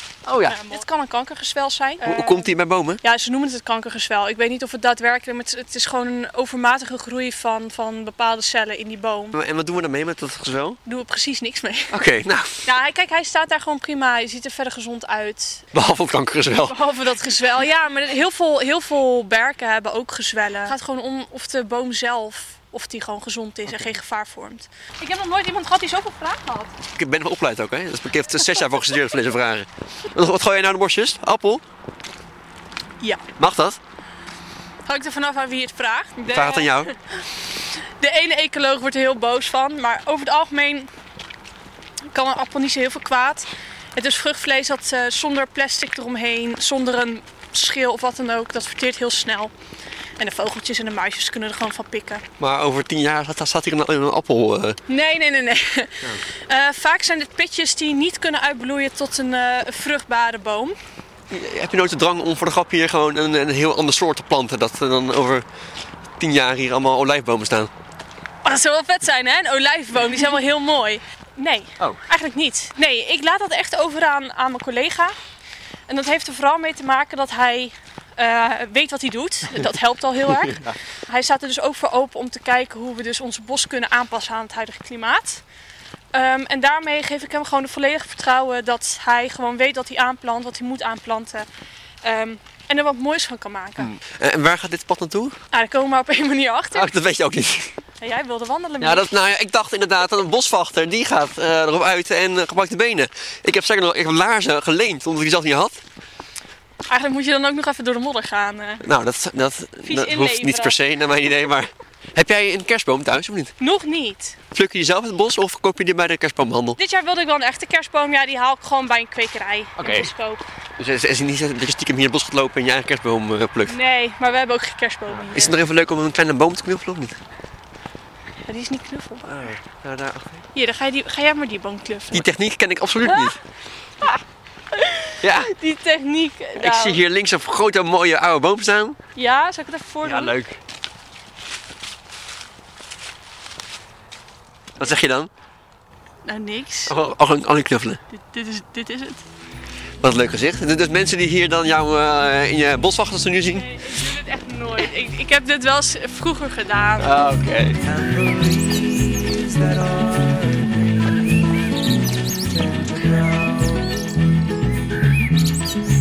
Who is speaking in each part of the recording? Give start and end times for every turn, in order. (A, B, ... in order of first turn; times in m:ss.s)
0:00.2-0:00.6 A
0:00.5-0:02.5 B
0:02.0-0:03.0 A
0:03.0-0:09.4 B
0:09.3-0:10.8 A
0:10.9-0:12.0 B
0:11.9-0:12.7 A
0:12.6-0:15.7 B
0:15.7-0:16.8 A
0:16.5-0:26.7 B
0:27.0-0:31.6 A
0:33.4-0:33.8 A
0:34.9-0:36.9 B
0:36.3-0:36.9 A
0:37.8-0:40.9 B
0:42.1-0:49.5 B
0:50.2-0:52.2 B
0:52.4-0:54.8 A
0:54.9-1:00.8 B
1:01.3-1:05.5 A
1:06.2-1:07.7 A
1:08.4-1:15.2 B
1:15.9-1:25.4 B
1:26.1-1:31.5 B
1:32.0-1:33.9 B
1:33.8-1:35.4 A
1:35.5-1:36.9 B
1:36.7-1:37.8 A
1:38.0-1:39.1 B
1:38.8-1:45.8 A
1:46.9-1:48.8 B
1:48.8-1:53.5 A
1:49.8-1:50.8 B
1:53.6-1:54.4 B
1:54.5-1:56.8 A
1:56.8-2:00.5 B
1:59.8-2:00.1 A
2:00.8-2:03.8 A
2:03.7-2:05.6 B
2:05.3-2:07.2 A
2:08.4-2:09.4 B
2:09.3-2:10.4 A
2:10.5-2:12.3 B
2:12.1-2:13.4 A
2:14.7-2:17.0 B
2:15.2-2:15.5 A
2:16.6-2:19.0 A
2:19.2-2:20.4 B
2:20.0-2:20.6 A
2:24.8-2:25.3 A
2:26.2-2:26.9 B
2:26.9-2:28.0 A
2:28.1-2:29.2 B
2:30.0-2:33.7 A
2:33.4-2:37.2 B
2:37.0-2:37.9 A
2:38.2-2:40.4 C